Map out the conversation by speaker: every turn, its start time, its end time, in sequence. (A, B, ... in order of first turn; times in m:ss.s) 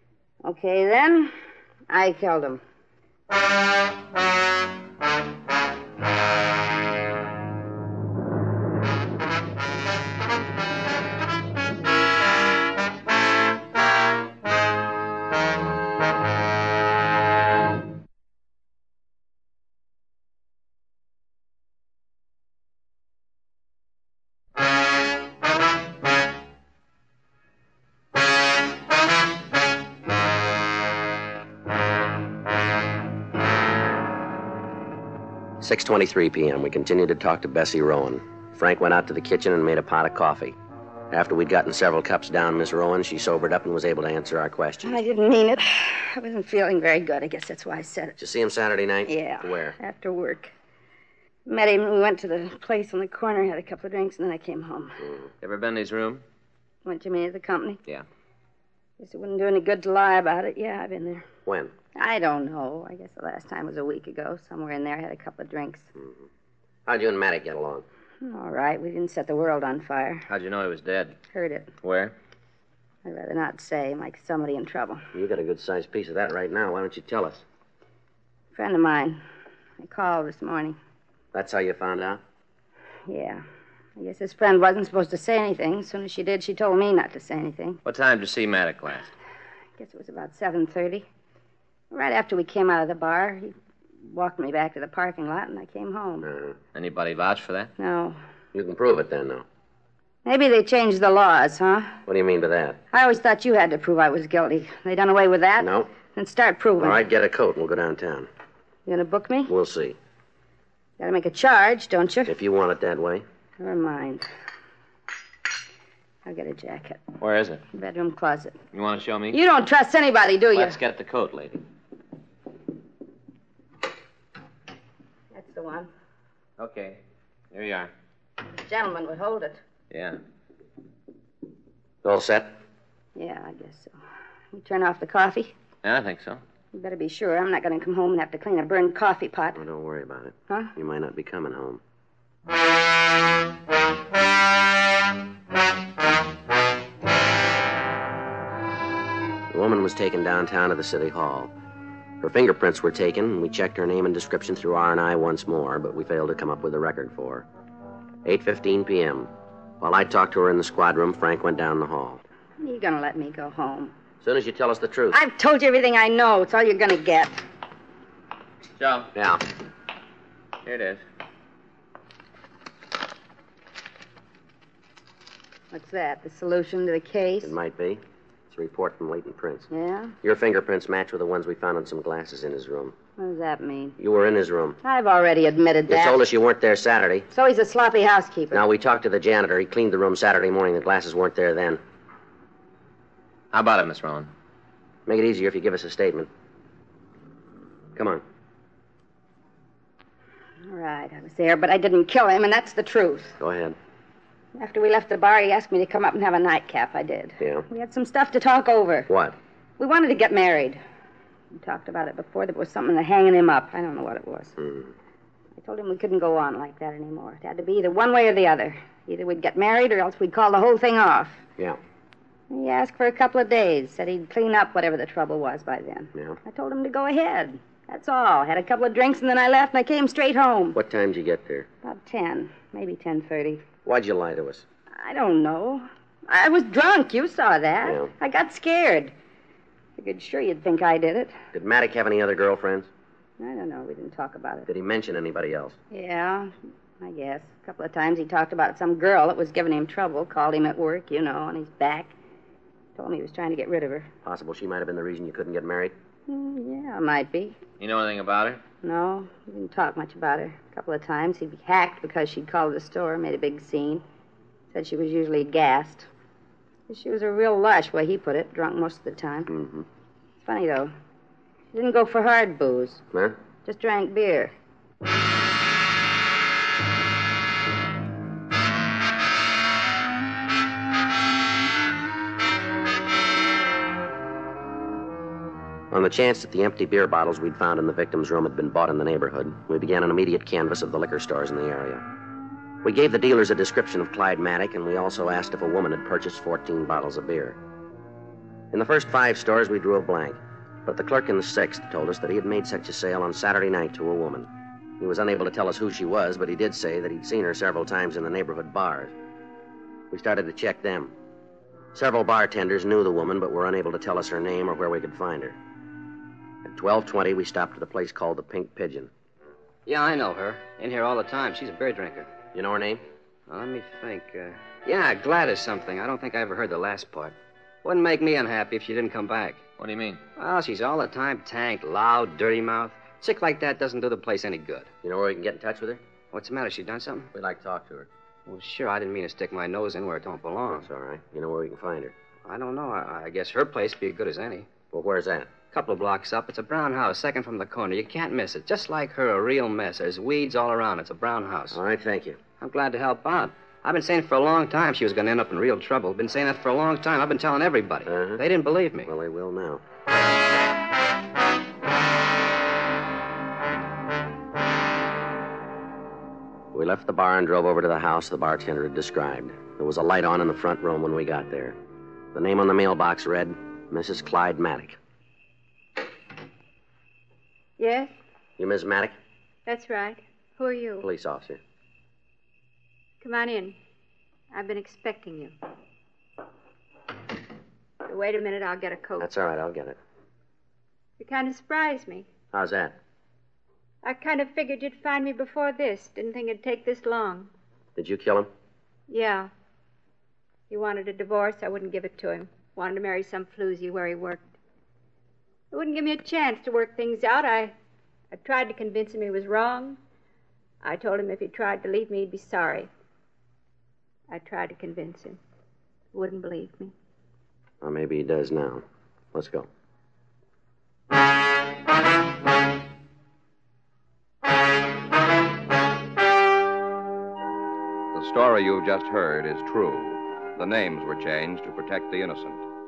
0:00.4-0:01.3 A
0:01.9-0:02.6 A
0:35.6-0:40.6 B
0:41.1-0:45.0 B
0:44.8-0:48.2 A
0:48.2-0:49.8 B
0:49.0-0:50.5 A
0:51.5-0:55.0 A
0:55.4-0:56.2 C
0:56.8-0:57.8 A
0:59.0-1:01.2 A
1:01.4-1:01.7 B
1:01.9-1:05.9 A
1:06.0-1:06.2 B
1:06.8-1:07.8 B
1:08.2-1:10.2 A
1:10.3-1:11.2 C
1:11.3-1:11.7 A
1:11.8-1:12.1 C
1:13.0-1:15.0 A
1:15.1-1:17.4 B
1:18.5-1:19.2 A
1:19.8-1:20.8 A
1:21.3-1:22.2 B
1:23.1-1:23.4 A
1:24.0-1:27.8 A
1:27.8-1:29.1 C
1:29.8-1:31.0 A
1:31.9-1:36.3 A
1:36.2-1:36.6 B
1:36.7-1:37.7 C
1:37.8-1:38.2 A
1:38.5-1:39.4 B
1:40.2-1:42.0 A
1:42.0-1:42.8 B
1:42.9-1:47.0 A
1:45.6-1:45.9 B
1:46.8-1:48.3 B
1:48.8-1:49.5 A
1:49.5-1:50.0 B
1:51.0-1:52.3 A
1:52.2-1:53.2 B
1:53.6-1:54.3 A
1:56.2-1:57.0 A
1:57.2-1:57.6 C
1:57.7-1:58.6 A
1:58.7-1:59.4 C
1:59.3-2:00.8 A
2:00.5-2:01.6 C
2:05.3-2:05.9 A
2:06.6-2:07.9 C
2:08.6-2:09.6 A
2:09.9-2:10.2 C
2:12.0-2:12.5 B
2:13.2-2:13.9 A
2:14.5-2:15.5 A
2:15.8-2:16.4 C
2:16.7-2:19.6 A
2:19.5-2:21.8 B
2:29.5-2:31.5 B
2:32.2-2:37.5 B
2:38.2-2:42.2 B
2:42.6-2:43.9 A
2:44.2-2:45.2 B
2:45.1-2:47.4 A
2:48.8-2:49.1 C
2:49.1-2:49.4 B
2:50.6-2:51.0 C
2:55.7-2:57.5 A
2:57.4-2:59.7 B
2:59.7-3:00.2 A
3:00.2-3:02.9 B
3:03.2-3:04.0 A
3:04.0-3:04.8 B
3:04.8-3:06.2 A
3:05.9-3:07.3 B
3:07.3-3:08.6 A
3:08.5-3:11.8 B
3:13.5-3:14.3 C
3:15.0-3:16.3 B
3:17.9-3:18.2 B
3:20.7-3:23.4 A
3:23.4-3:23.8 B
3:24.5-3:29.1 A
3:27.4-3:27.6 B
3:29.1-3:29.4 B
3:29.8-3:30.8 A
3:31.5-3:34.6 A
3:34.6-3:34.9 B
3:35.6-3:41.4 A
3:42.5-3:50.8 A
3:50.7-3:51.7 B
3:51.8-3:53.6 A
3:53.8-3:54.6 B
3:54.9-3:59.1 A
3:57.8-3:58.1 B
4:00.0-4:01.4 A
4:01.5-4:02.9 B
4:03.4-4:04.7 A
4:04.7-4:05.8 B
4:05.9-4:12.1 A
4:13.0-4:14.1 A
4:14.2-4:15.9 B
4:16.3-4:17.6 A
4:17.8-4:18.6 C
4:18.8-4:24.0 A
4:24.7-4:26.1 A
4:26.9-4:29.5 A
4:29.5-4:29.8 B
4:30.4-4:30.9 A
4:31.7-4:33.0 A
4:33.1-4:33.4 B
4:33.6-4:34.5 A
4:45.9-4:52.0 B
4:52.8-4:57.6 B
4:58.7-5:04.5 B
5:05.0-5:09.1 B
5:10.1-5:11.1 B
5:11.9-5:15.6 B
5:16.6-5:19.1 B
5:19.8-5:22.3 D
5:22.5-5:23.0 B
5:23.5-5:29.6 D
5:29.8-5:30.2 C
5:30.4-5:34.9 D
5:35.0-5:36.0 B
5:36.3-5:37.3 D
5:37.3-5:38.1 B
5:38.4-5:40.9 D
5:40.7-5:42.1 B
5:42.4-5:44.7 D
5:44.9-5:45.5 B
5:45.7-5:51.8 D
5:51.7-5:52.4 B
5:52.6-5:59.1 D
5:58.0-5:58.4 B
5:59.0-5:59.8 B
6:06.7-6:11.8 B
6:12.3-6:15.0 B
6:17.8-6:18.1 E
6:18.6-6:19.2 B
6:19.6-6:21.0 E
6:21.0-6:21.6 B
6:23.2-6:23.8 E
6:24.5-6:25.5 E
6:28.0-6:29.3 E
6:29.2-6:30.0 B
6:31.2-6:32.3 E
6:32.5-6:33.0 B
6:34.0-6:37.5 E
6:38.0-6:38.5 B
6:39.1-6:39.5 E
6:40.7-6:44.5 E
6:45.7-6:47.7 E
6:48.3-6:50.0 E
6:50.8-6:52.9 E
6:54.3-6:55.4 E
6:56.1-6:56.9 E
6:57.8-6:59.7 B
7:08.1-7:12.6 F